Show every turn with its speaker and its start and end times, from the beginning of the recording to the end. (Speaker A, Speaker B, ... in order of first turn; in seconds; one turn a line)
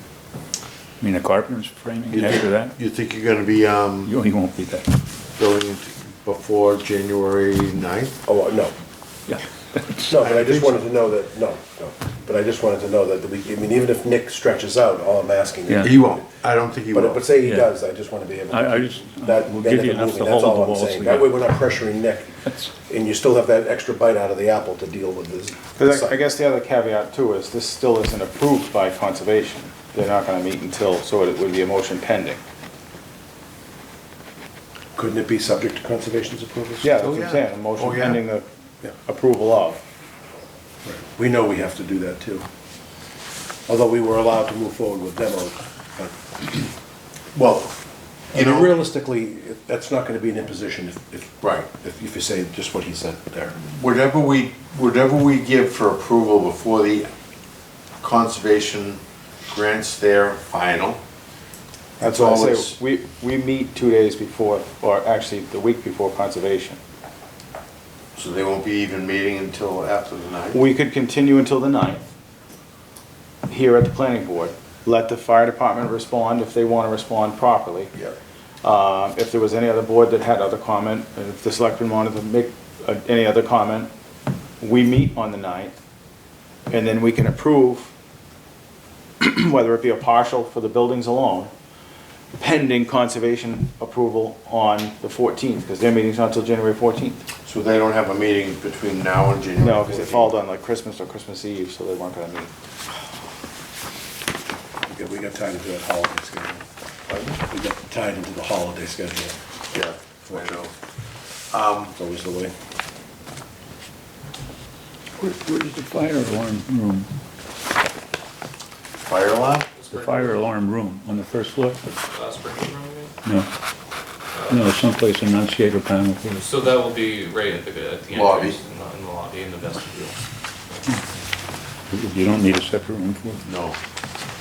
Speaker A: 1.0-2.8
Speaker B: 2.1-4.1
Speaker A: 4.0-4.9
Speaker B: 5.4-8.2
Speaker C: 8.3-8.7
Speaker A: 9.3-10.3
Speaker C: 10.1-16.2
Speaker B: 10.2-10.8
Speaker B: 15.8-17.3
Speaker C: 16.9-26.2
Speaker A: 17.4-17.7
Speaker A: 18.5-21.3
Speaker D: 25.8-32.4
Speaker C: 35.0-37.0
Speaker D: 36.8-39.8
Speaker B: 37.0-38.2
Speaker C: 40.8-42.5
Speaker C: 43.7-46.7
Speaker B: 47.3-47.8
Speaker B: 48.3-48.8
Speaker C: 48.3-53.6
Speaker B: 53.7-57.1
Speaker B: 58.0-61.0
Speaker B: 62.0-62.8
Speaker D: 62.0-66.8
Speaker B: 68.2-70.6
Speaker D: 70.5-72.1
Speaker D: 73.5-77.9
Speaker D: 78.6-83.9
Speaker D: 84.6-85.7
Speaker D: 86.7-87.9
Speaker D: 89.2-91.5
Speaker D: 92.4-97.2
Speaker B: 97.4-100.3
Speaker D: 99.6-102.5
Speaker C: 104.9-109.4
Speaker B: 109.7-110.7
Speaker C: 110.3-110.7
Speaker B: 111.5-111.9
Speaker C: 111.9-112.5
Speaker A: 115.2-117.1
Speaker B: 119.1-119.8
Speaker E: 119.8-120.4
Speaker A: 119.9-121.8
Speaker E: 121.9-123.2
Speaker A: 123.2-123.5
Speaker E: 124.3-124.8
Speaker A: 124.5-126.4
Speaker E: 126.3-130.2
Speaker B: 128.1-128.6
Speaker A: 131.9-133.5
Speaker B: 133.4-133.8